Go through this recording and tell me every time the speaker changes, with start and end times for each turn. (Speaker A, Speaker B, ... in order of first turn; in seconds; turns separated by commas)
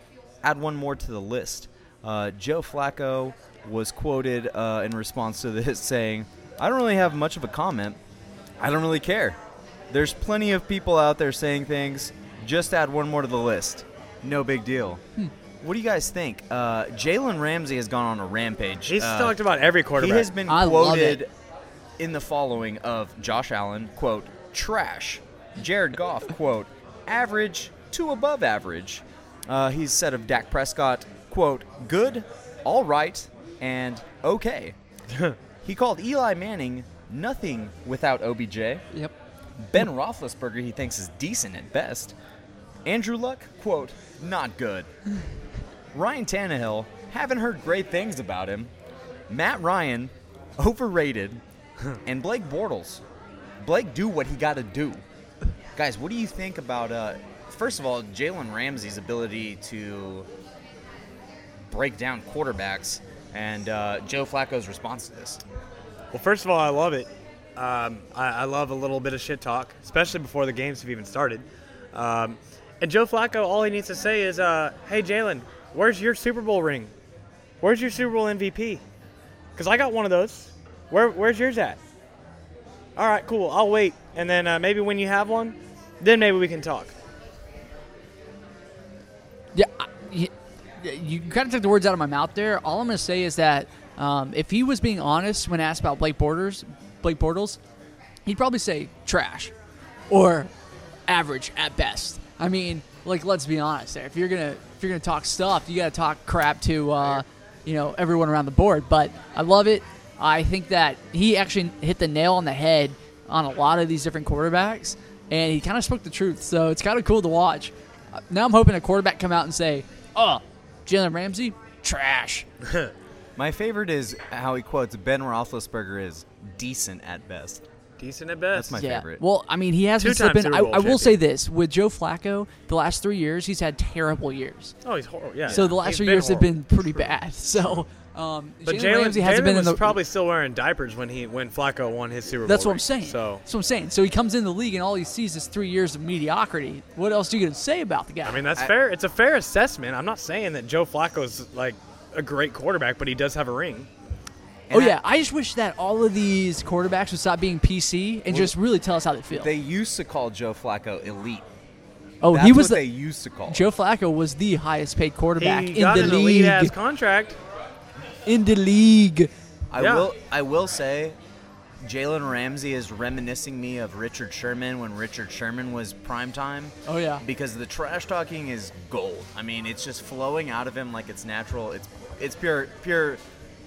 Speaker A: 0.4-8.0, Speaker A: 8.6-9.4, Speaker A: 9.9-15.0, Speaker A: 15.6-19.4, Speaker B: 18.9-20.3, Speaker A: 19.9-21.3, Speaker C: 20.4-21.2, Speaker A: 22.0-34.8, Speaker B: 35.1-35.4, Speaker A: 35.6-38.8, Speaker A: 39.6-42.1, Speaker A: 42.8-44.9, Speaker A: 45.9-48.7, Speaker A: 49.3-51.4, Speaker A: 52.0-53.0, Speaker A: 53.6-55.0, Speaker A: 55.8-60.3, Speaker A: 61.7-65.4, Speaker B: 66.1-76.9, Speaker B: 77.6-78.8, Speaker B: 79.5-81.8, Speaker B: 83.0-86.9, Speaker C: 89.5-97.6, Speaker C: 98.2-99.5, Speaker C: 100.1-100.5, Speaker C: 101.1-122.5, Speaker B: 122.6-122.9, Speaker A: 123.3-127.6, Speaker B: 128.0-128.8, Speaker A: 128.5-129.2, Speaker C: 128.7-134.7, Speaker B: 130.0-131.2, Speaker B: 134.8-136.5, Speaker A: 135.5-135.8, Speaker C: 135.5-140.0, Speaker A: 136.9-137.8, Speaker B: 138.6-143.4, Speaker C: 142.4-148.4, Speaker B: 148.2-153.9, Speaker A: 154.7-155.0, Speaker C: 154.7-159.5, Speaker A: 158.3-158.6, Speaker A: 159.3-161.5, Speaker C: 162.2-162.9, Speaker A: 162.2-163.7, Speaker C: 163.5-166.7, Speaker B: 165.4-167.4, Speaker C: 168.2-169.3, Speaker A: 169.7-171.2, Speaker B: 169.8-170.1, Speaker A: 171.8-183.2, Speaker C: 176.9-177.2